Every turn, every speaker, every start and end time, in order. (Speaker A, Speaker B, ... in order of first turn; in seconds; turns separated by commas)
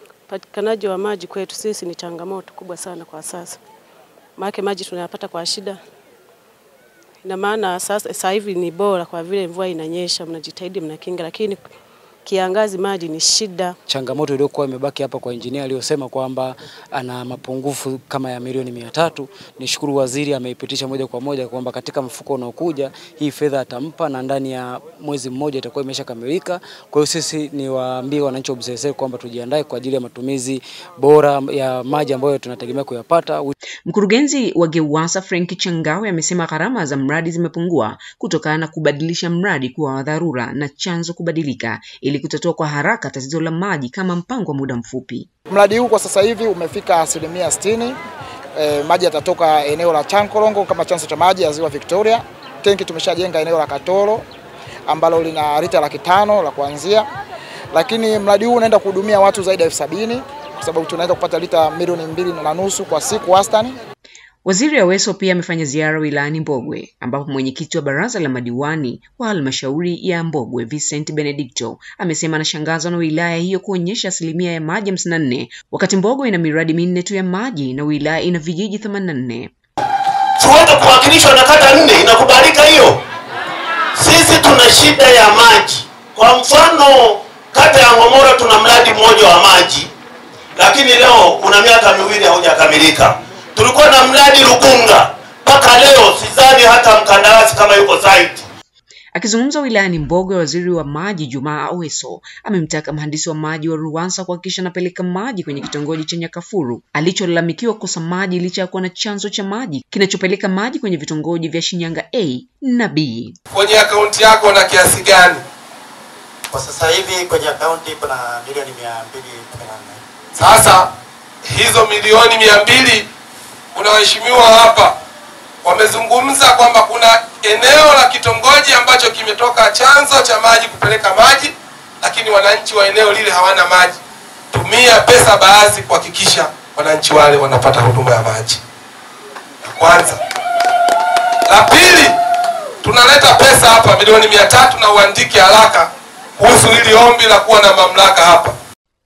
Speaker A: 0.3-3.6, Speaker A: 4.4-5.8, Speaker A: 7.2-11.6, Speaker A: 12.2-13.8, Speaker B: 13.9-33.5, Speaker C: 33.9-45.3, Speaker D: 45.5-48.0, Speaker D: 48.6-54.2, Speaker D: 54.9-57.1, Speaker D: 57.7-63.8, Speaker C: 64.4-79.5, Speaker E: 80.4-83.0, Speaker E: 84.0-89.9, Speaker E: 90.6-98.5, Speaker C: 99.1-113.3, Speaker F: 113.5-115.4, Speaker G: 116.5-120.0, Speaker F: 120.3-120.9, Speaker F: 121.5-123.1, Speaker F: 123.8-124.9, Speaker F: 125.6-134.0, Speaker F: 134.5-138.6, Speaker F: 139.8-140.2, Speaker F: 141.5-142.1, Speaker F: 142.8-148.5